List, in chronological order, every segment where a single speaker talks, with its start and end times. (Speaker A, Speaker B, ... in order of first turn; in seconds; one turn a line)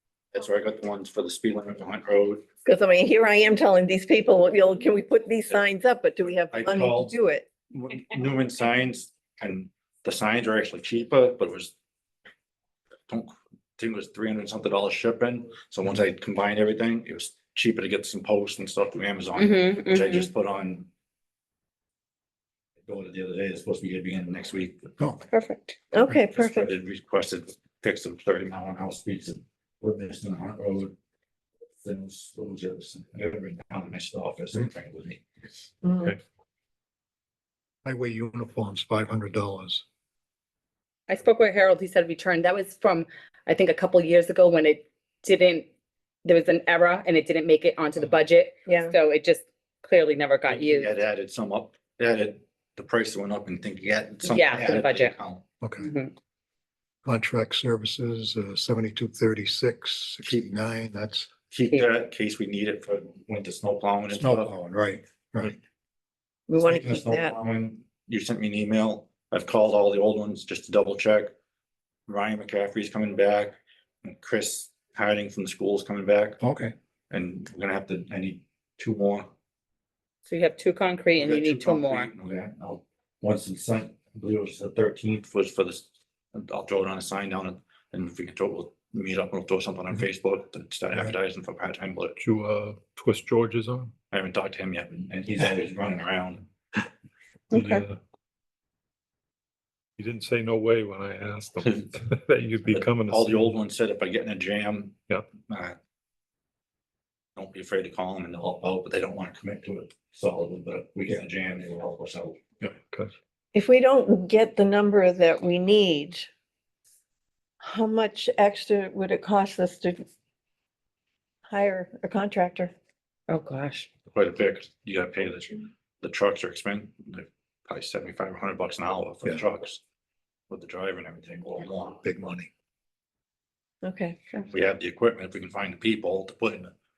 Speaker A: 0.3-2.5
Speaker B: 2.6-7.5
Speaker A: 6.5-7.1
Speaker A: 7.7-11.7
Speaker A: 13.1-20.9
Speaker C: 19.4-20.3
Speaker A: 22.9-24.9
Speaker C: 25.3-25.8
Speaker B: 25.9-26.7
Speaker A: 26.0-30.9
Speaker A: 31.8-35.2
Speaker B: 35.8-36.1
Speaker D: 37.9-39.8
Speaker C: 41.1-45.7
Speaker C: 46.2-50.9
Speaker B: 48.7-48.9
Speaker A: 50.5-55.4
Speaker C: 54.2-55.1
Speaker D: 55.6-55.9
Speaker C: 55.8-56.1
Speaker D: 57.0-61.3
Speaker A: 61.5-64.5
Speaker D: 64.1-65.6
Speaker B: 66.5-67.3
Speaker A: 66.6-71.3
Speaker A: 72.1-76.4
Speaker D: 76.4-76.7
Speaker A: 77.1-79.3
Speaker C: 80.3-82.1
Speaker A: 81.2-92.2
Speaker E: 92.2-93.9
Speaker A: 94.1-96.5
Speaker B: 97.5-97.8
Speaker E: 97.5-98.0
Speaker E: 100.0-103.5
Speaker A: 102.8-105.8
Speaker A: 107.4-112.5
Speaker E: 112.6-113.1
Speaker B: 113.5-116.3
Speaker B: 117.6-120.0
Speaker B: 121.5-122.7
Speaker C: 123.3-123.9
Speaker A: 124.1-129.8
Speaker A: 130.5-132.0
Speaker D: 132.0-132.5
Speaker B: 133.8-134.2
Speaker A: 134.5-136.7